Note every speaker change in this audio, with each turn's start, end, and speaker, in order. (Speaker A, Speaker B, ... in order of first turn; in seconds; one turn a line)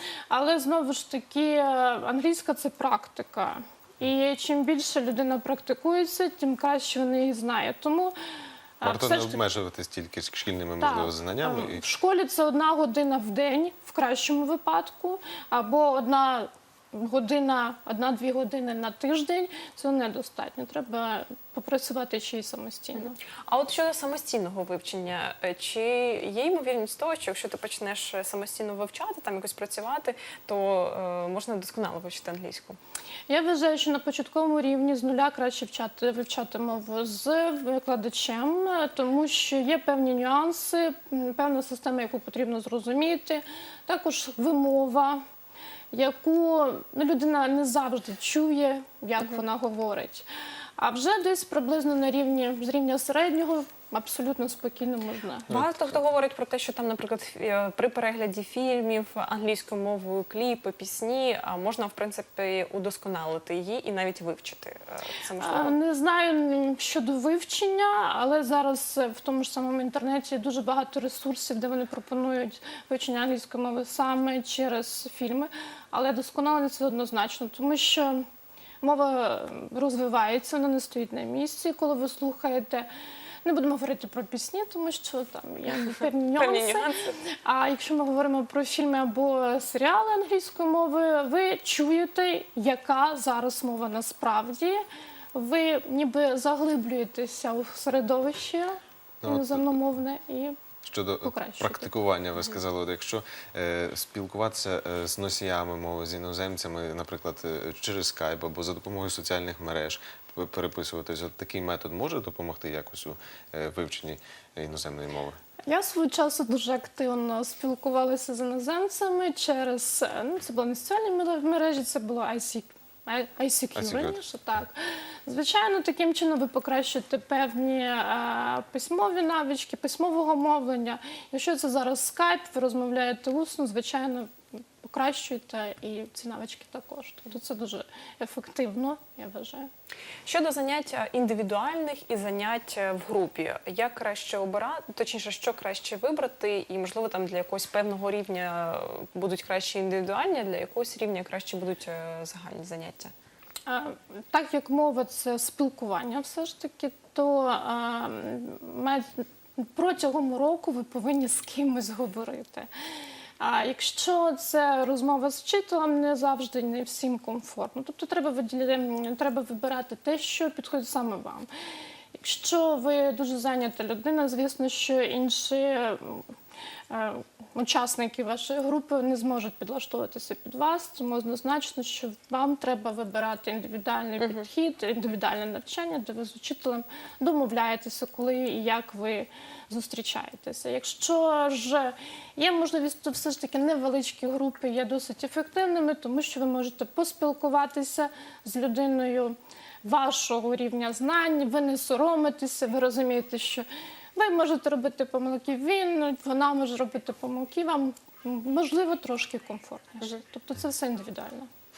Speaker A: 0.3-8.1
Speaker A: 8.8-9.4
Speaker B: 8.8-11.8
Speaker A: 10.8-23.2
Speaker C: 23.4-32.8
Speaker A: 33.3-45.2
Speaker A: 45.9-50.2
Speaker A: 50.8-55.5
Speaker C: 55.5-65.8
Speaker B: 55.5-55.9
Speaker A: 65.4-78.2
Speaker A: 78.8-82.9
Speaker A: 83.4-94.8
Speaker C: 86.3-87.2
Speaker A: 95.3-100.6
Speaker B: 99.2-99.8
Speaker B: 100.8-115.4
Speaker A: 101.2-101.9
Speaker A: 115.7-134.3
Speaker B: 123.8-124.2
Speaker A: 134.8-139.7
Speaker C: 140.2-153.1
Speaker A: 153.7-162.7
Speaker A: 163.4-171.5
Speaker A: 172.1-176.2
Speaker A: 176.9-211.5